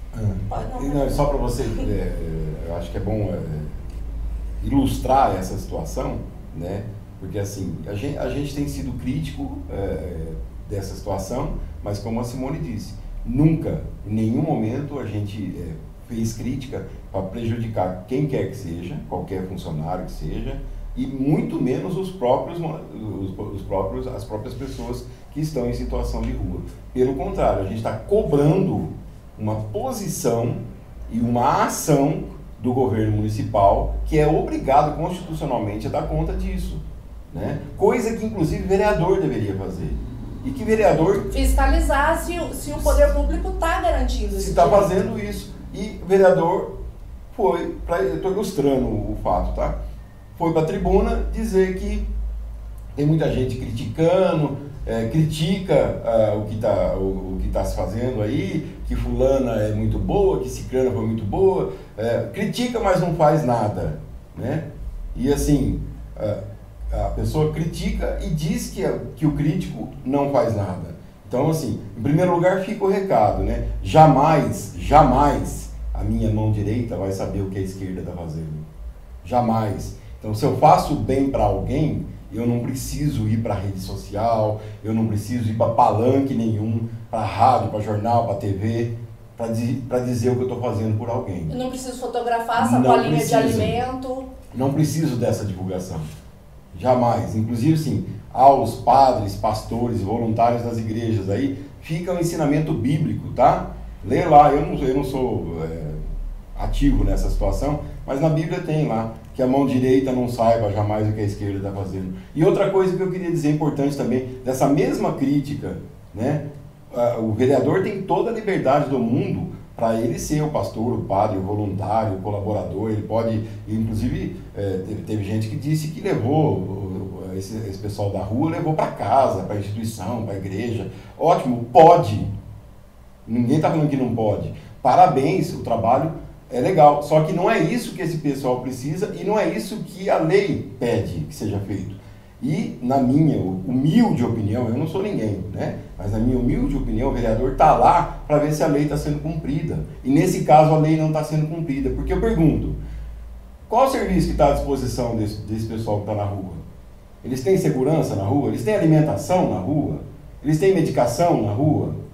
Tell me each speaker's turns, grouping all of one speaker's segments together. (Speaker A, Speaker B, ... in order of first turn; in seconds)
Speaker A: 0.1-3.8, 4.6-41.3, 44.4-46.7, 47.3-49.7, 50.3-52.1, 53.0-78.7, 79.2-91.6, 92.6-93.8, 94.5-96.0, 96.7-106.0, 106.5-132.3, 133.3-152.8, 153.7-156.6, 157.2-162.0
Speaker B: 0.5-1.9, 41.3-45.0, 91.5-94.3